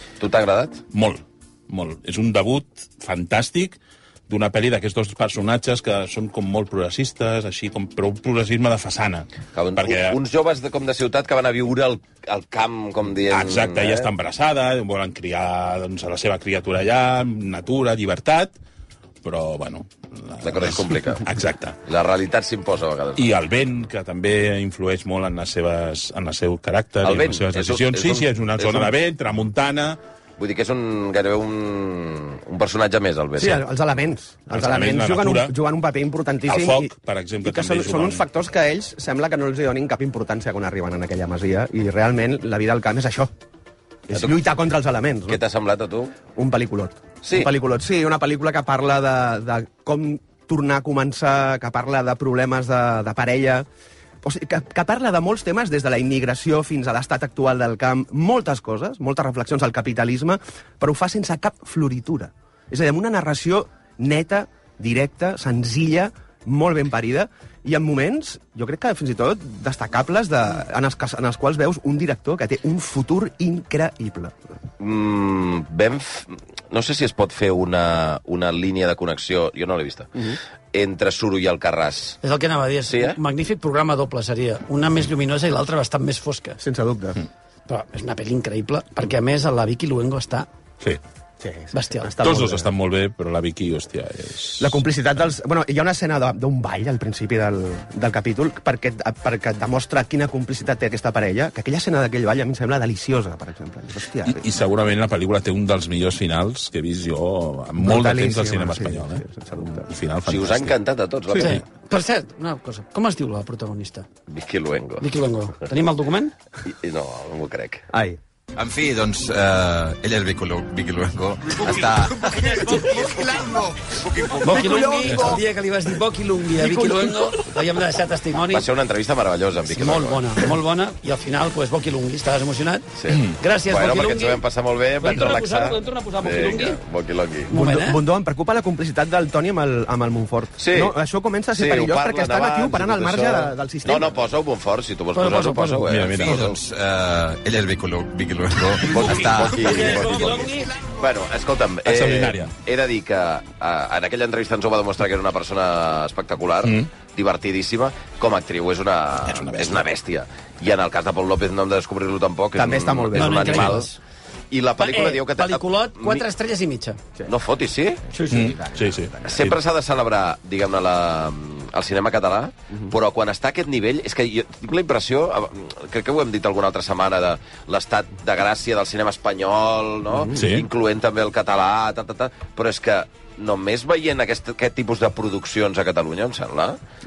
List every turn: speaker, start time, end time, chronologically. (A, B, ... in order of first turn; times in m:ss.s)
0:00.2-0:00.8 A
0:00.9-0:10.2 B
0:09.5-0:14.1 A
0:13.3-0:18.5 B
0:19.2-0:21.8 B
0:20.4-0:21.2 A
0:21.9-0:23.4 A
0:23.2-0:30.0 B
0:27.0-0:28.9 A
0:30.4-0:33.6 A
0:33.4-0:43.3 C
0:34.5-0:35.6 B
0:36.5-0:38.2 B
0:44.1-0:45.4 C
0:45.3-0:46.2 A
0:46.4-0:53.7 C
0:47.2-0:47.5 A
0:54.2-1:14.4 C
1:14.8-1:22.2 A
1:22.2-1:26.6 D
1:22.9-1:23.2 A
1:26.6-1:27.2 C
1:27.7-1:30.5 D
1:31.4-1:32.7 C
1:31.7-1:32.1 D
1:32.2-1:34.8 B
1:34.6-1:44.4 C
1:44.3-1:50.8 B
1:47.8-1:49.9 C
1:50.3-1:51.6 A
1:51.4-1:51.6 B
1:51.4-1:54.1 D
1:54.3-1:55.0 A
1:55.0-1:56.3 D
1:56.6-1:57.8 A
1:57.9-1:58.2 C
1:58.6-2:04.4 E
2:04.4-2:08.7 D
2:04.5-2:05.3 C
2:05.0-2:05.4 B
2:08.5-2:10.4 A
2:09.7-2:14.4 D
2:13.0-2:17.5 A
2:15.0-2:16.8 D
2:17.5-2:18.0 D
2:17.5-2:24.2 C
2:20.6-2:21.0 A
2:21.5-2:26.6 A
2:25.2-2:25.8 D
2:25.8-2:26.6 B
2:26.4-2:30.5 E
2:28.8-2:30.3 A
2:29.0-2:29.4 B
2:29.6-2:30.7 D
2:31.0-2:43.8 A
2:31.8-2:32.5 B
2:36.6-2:36.9 B
2:39.3-2:39.8 B
2:42.6-2:43.8 C
2:43.2-2:44.0 D
2:44.5-2:46.2 A
2:44.8-2:47.0 D
2:47.3-2:48.0 A
2:48.1-2:48.6 D
2:48.3-2:49.5 C
2:48.3-2:49.6 B
2:49.3-3:06.8 A
3:00.4-3:00.6 B